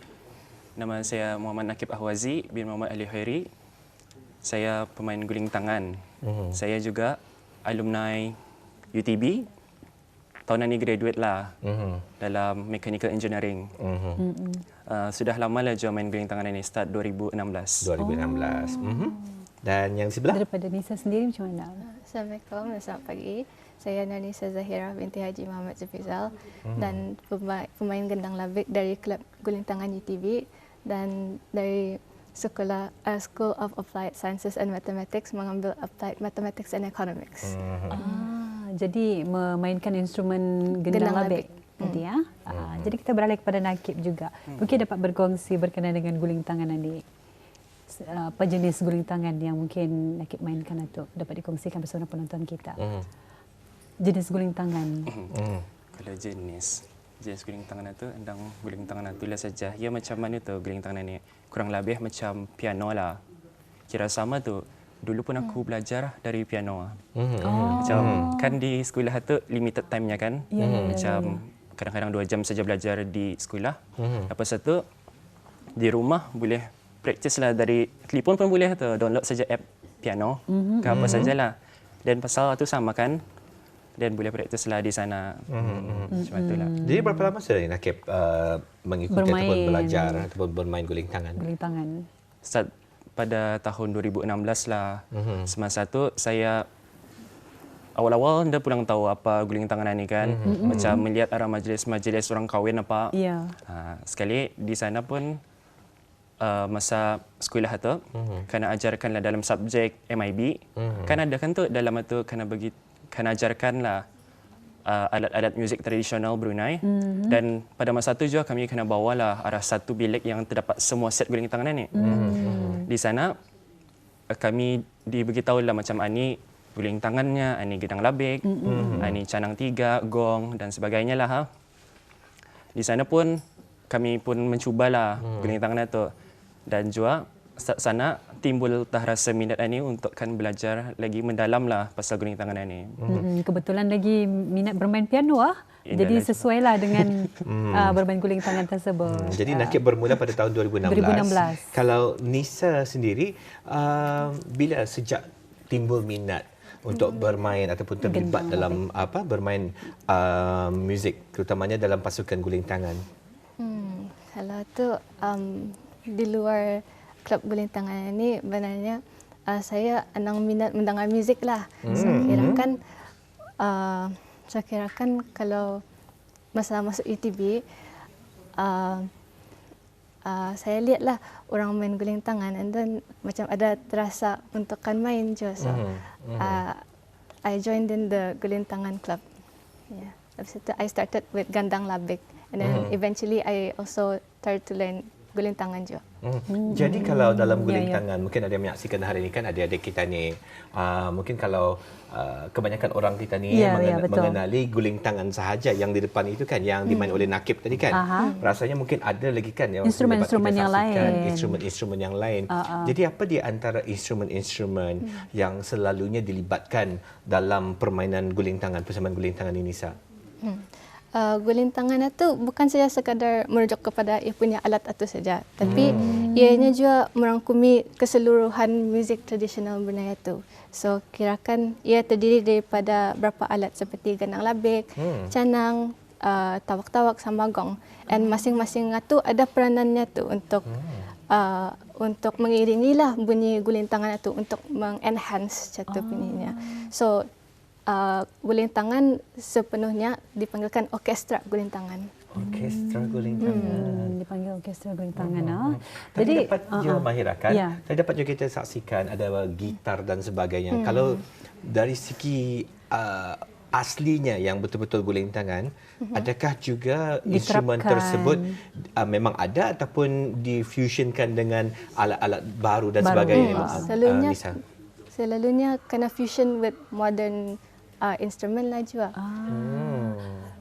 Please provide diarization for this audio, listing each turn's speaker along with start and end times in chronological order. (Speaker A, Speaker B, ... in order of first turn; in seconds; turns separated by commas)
Speaker A: 0.8-3.5, Speaker A: 4.4-6.0, Speaker B: 6.2-6.6, Speaker A: 6.5-8.4, Speaker A: 8.9-9.5, Speaker A: 10.5-11.5, Speaker B: 11.6-12.0, Speaker A: 12.2-13.7, Speaker B: 13.8-14.2, Speaker C: 14.2-14.6, Speaker A: 14.9-17.9, Speaker B: 17.8-20.4, Speaker C: 18.0-19.3, Speaker C: 20.3-21.9, Speaker D: 21.9-37.5, Speaker B: 26.7-27.0, Speaker B: 37.4-38.0, Speaker C: 37.9-47.0, Speaker D: 40.9-42.0, Speaker B: 42.5-43.0, Speaker C: 47.9-52.8, Speaker B: 52.8-53.1, Speaker C: 54.0-55.1, Speaker A: 55.1-55.3, Speaker B: 55.3-55.6, Speaker A: 55.9-63.2, Speaker A: 63.9-67.0, Speaker B: 67.2-68.3, Speaker C: 67.4-68.6, Speaker A: 67.8-74.8, Speaker C: 70.5-71.4, Speaker B: 70.6-71.0, Speaker B: 74.0-74.3, Speaker A: 75.8-81.5, Speaker C: 80.5-81.3, Speaker B: 80.9-81.3, Speaker A: 82.0-83.2, Speaker A: 84.0-86.7, Speaker B: 85.5-86.2, Speaker C: 86.1-87.3, Speaker B: 86.8-91.4, Speaker C: 89.1-90.3, Speaker C: 91.4-92.0, Speaker A: 92.4-96.7, Speaker B: 95.1-95.5, Speaker A: 98.0-103.1, Speaker B: 100.2-101.0, Speaker C: 100.4-101.0, Speaker C: 103.1-103.6, Speaker A: 103.7-105.4, Speaker A: 106.4-114.0, Speaker B: 108.2-108.5, Speaker B: 110.8-111.2, Speaker A: 114.9-122.3, Speaker C: 116.8-117.4, Speaker C: 121.9-122.9, Speaker B: 122.0-122.8, Speaker A: 122.9-123.3, Speaker A: 124.3-128.5, Speaker C: 128.4-129.1, Speaker B: 128.7-129.2, Speaker A: 129.0-131.5, Speaker A: 132.8-133.4, Speaker A: 133.9-136.1, Speaker B: 135.2-135.6, Speaker A: 136.7-143.0, Speaker B: 143.0-143.3, Speaker C: 143.1-150.3, Speaker A: 145.9-147.3, Speaker B: 147.5-148.0, Speaker B: 149.1-163.0, Speaker C: 150.8-151.7, Speaker D: 156.9-157.3, Speaker C: 158.0-158.8, Speaker D: 163.6-172.8, Speaker B: 171.8-172.6, Speaker C: 171.9-172.6, Speaker D: 173.6-175.8, Speaker D: 176.6-177.6, Speaker D: 178.6-179.1, Speaker D: 180.3-185.9, Speaker B: 185.6-186.6, Speaker D: 186.4-186.8, Speaker D: 187.5-189.2, Speaker D: 189.9-196.0, Speaker B: 192.6-193.0, Speaker B: 196.2-219.9, Speaker C: 196.5-198.0, Speaker C: 203.5-204.4, Speaker D: 206.9-207.2, Speaker C: 207.9-208.4, Speaker D: 208.2-208.5, Speaker C: 209.8-211.6, Speaker C: 212.5-213.0, Speaker D: 220.4-240.7, Speaker B: 225.6-226.3, Speaker C: 225.7-226.7, Speaker B: 235.0-235.3, Speaker B: 240.7-241.1, Speaker D: 241.3-247.2, Speaker C: 245.9-246.9, Speaker D: 247.9-252.1, Speaker B: 252.3-254.2, Speaker C: 252.4-257.8, Speaker D: 253.4-253.8, Speaker B: 255.2-274.6, Speaker D: 260.7-261.2, Speaker D: 266.0-266.3, Speaker C: 267.3-268.6, Speaker C: 273.0-273.9, Speaker D: 273.3-274.4, Speaker D: 275.1-279.1, Speaker C: 279.2-280.2, Speaker B: 279.5-280.5